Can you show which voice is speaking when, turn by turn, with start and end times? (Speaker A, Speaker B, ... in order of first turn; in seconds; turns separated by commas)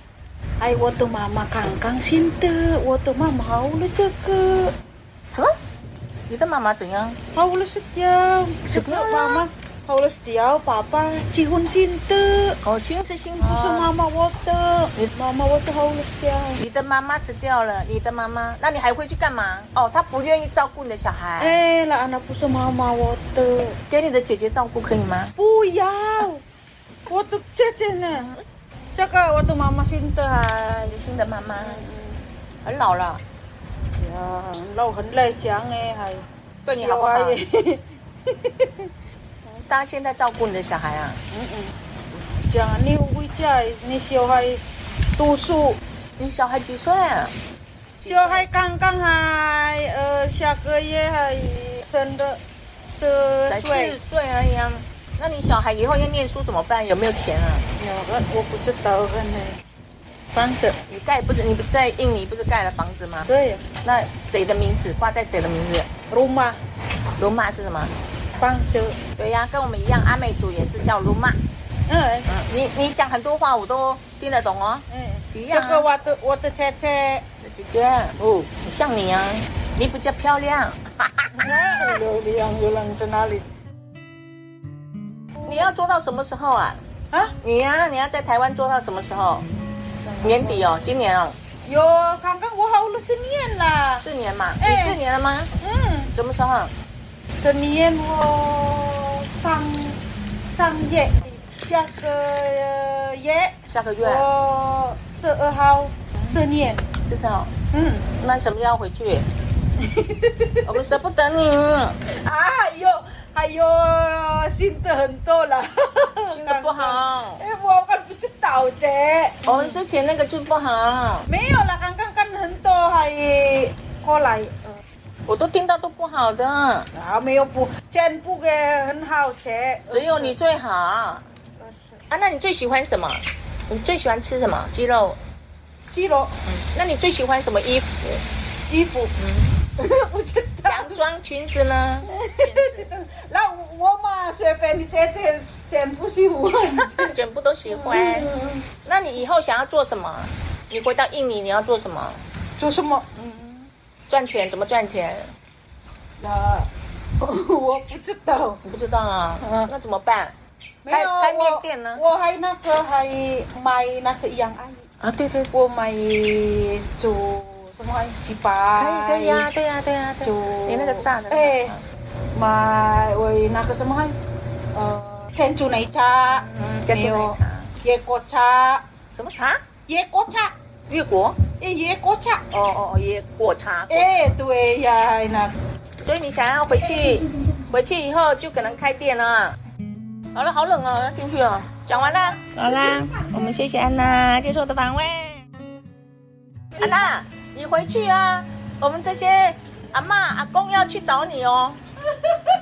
Speaker A: 0.6-4.8, Speaker B: 6.3-7.2, Speaker A: 7.3-12.6, Speaker B: 8.7-9.5, Speaker B: 12.6-13.9, Speaker A: 13.4-16.6, Speaker B: 16.6-21.6, Speaker A: 21.4-23.8, Speaker B: 23.9-25.3, Speaker A: 25.4-26.4, Speaker A: 27.1-28.4, Speaker A: 28.9-31.0, Speaker B: 30.9-31.9, Speaker A: 31.6-32.2, Speaker B: 32.6-33.2, Speaker A: 34.0-38.9, Speaker B: 36.6-37.4, Speaker B: 39.5-41.2, Speaker A: 41.3-41.8, Speaker A: 42.5-44.6, Speaker A: 45.2-45.8, Speaker B: 46.2-47.4, Speaker B: 48.0-48.5, Speaker A: 48.1-54.0, Speaker B: 53.5-57.7, Speaker A: 57.8-59.6, Speaker A: 60.3-60.8, Speaker B: 60.9-63.3, Speaker A: 63.2-63.7, Speaker B: 63.8-65.9, Speaker A: 66.1-66.6, Speaker B: 67.2-68.0, Speaker A: 68.4-69.0, Speaker B: 69.2-71.4, Speaker A: 71.9-72.3, Speaker B: 72.3-75.9, Speaker A: 74.9-77.2, Speaker B: 77.4-81.3, Speaker A: 78.2-78.5, Speaker A: 81.3-83.5, Speaker B: 85.4-89.5, Speaker A: 90.0-90.8, Speaker B: 90.2-91.4, Speaker A: 91.6-94.1, Speaker B: 94.0-95.5, Speaker A: 94.6-95.0, Speaker A: 95.6-96.1, Speaker B: 96.1-96.7, Speaker A: 97.3-106.9, Speaker B: 103.7-104.3, Speaker B: 107.0-107.5, Speaker A: 107.7-108.1, Speaker B: 108.2-109.3, Speaker A: 109.8-110.7, Speaker B: 110.6-112.0, Speaker A: 112.1-119.8, Speaker B: 116.3-117.4, Speaker B: 119.4-121.3, Speaker A: 121.3-124.8, Speaker B: 125.3-126.9, Speaker A: 126.9-130.4, Speaker B: 129.9-131.3, Speaker A: 131.6-132.0, Speaker B: 132.1-135.2, Speaker A: 135.9-136.4, Speaker B: 136.5-138.2, Speaker A: 138.7-139.1, Speaker B: 139.2-139.6, Speaker A: 139.8-141.0, Speaker B: 140.7-142.9, Speaker A: 142.0-147.2, Speaker B: 146.8-148.3, Speaker A: 147.7-148.7, Speaker B: 148.8-152.2, Speaker A: 152.6-153.7, Speaker B: 154.1-155.3, Speaker A: 156.2-158.6, Speaker B: 158.6-160.3, Speaker A: 159.4-159.7, Speaker A: 160.8-164.8, Speaker B: 160.9-162.0, Speaker B: 165.0-165.5, Speaker A: 165.5-169.5, Speaker B: 168.8-171.8, Speaker A: 170.2-171.8, Speaker A: 172.3-174.2, Speaker A: 174.7-178.8, Speaker B: 176.3-177.7, Speaker B: 179.2-179.6, Speaker A: 179.9-180.5, Speaker B: 180.9-181.4, Speaker A: 181.6-182.4, Speaker B: 182.5-184.2, Speaker A: 183.9-185.6, Speaker B: 186.0-189.6, Speaker B: 190.3-195.4, Speaker B: 196.8-201.8